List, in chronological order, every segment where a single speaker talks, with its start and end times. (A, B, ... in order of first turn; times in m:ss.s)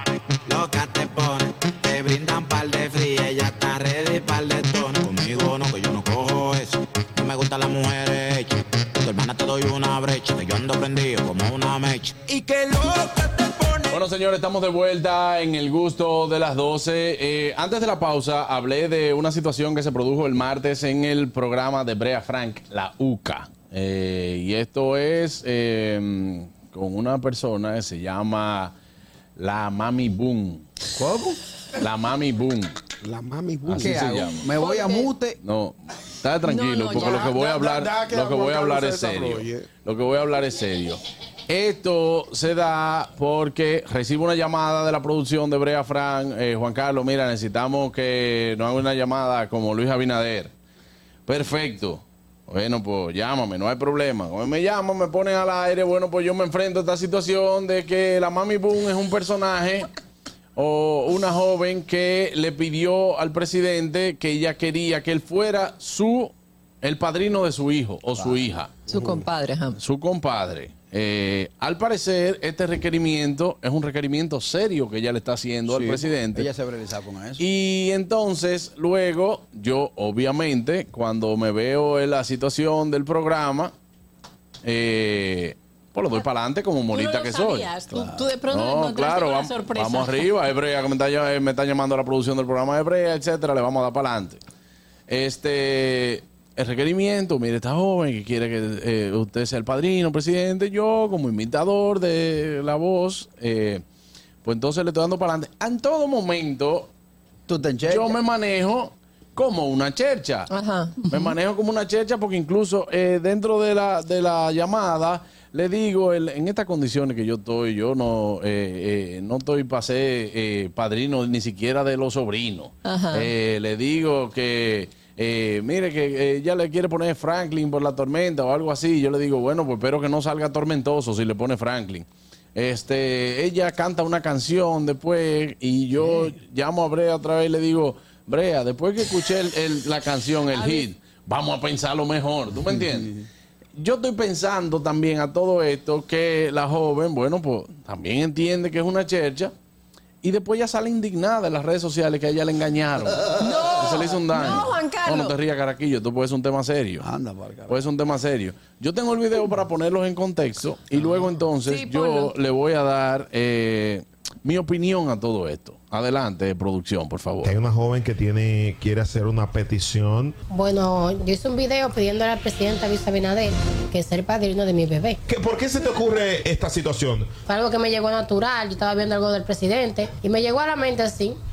0:00.4-0:13.8 A
0:13.9-0:28.7 B
0:29.4-0:30.6 B
0:31.0-0:31.4 C
0:31.8-0:32.7 B
0:33.0-0:34.0 D
0:33.6-0:34.5 B
0:33.8-0:35.4 C
0:34.6-0:35.0 E
0:35.4-0:50.5 B
0:36.4-0:37.4 E
0:36.9-0:39.7 D
0:51.2-0:59.9 B
1:00.6-1:08.7 B
1:08.2-1:08.4 C
1:08.9-1:09.8 E
1:08.9-1:09.2 D
1:09.7-1:16.5 B
1:15.7-1:17.4 C
1:17.4-1:23.7 B
1:24.6-1:27.7 B
1:26.9-1:30.3 F
1:27.9-1:28.3 C
1:28.5-1:34.4 B
1:35.1-1:43.8 B
1:44.4-1:46.9 B
1:47.5-1:48.2 C
1:47.9-1:50.5 B
1:50.5-1:51.0 E
1:51.1-2:23.1 B
2:02.8-2:03.3 E
2:16.0-2:16.3 C
2:22.7-2:23.2 C
2:23.8-2:29.5 B
2:30.2-2:37.1 B
2:33.4-2:35.3 E
2:37.0-2:37.9 C
2:37.7-2:47.6 B
2:41.0-2:41.2 C
2:41.6-2:42.3 E
2:47.4-2:50.3 G
2:50.5-2:55.2 H
2:55.3-2:57.3 G
2:57.4-3:01.4 H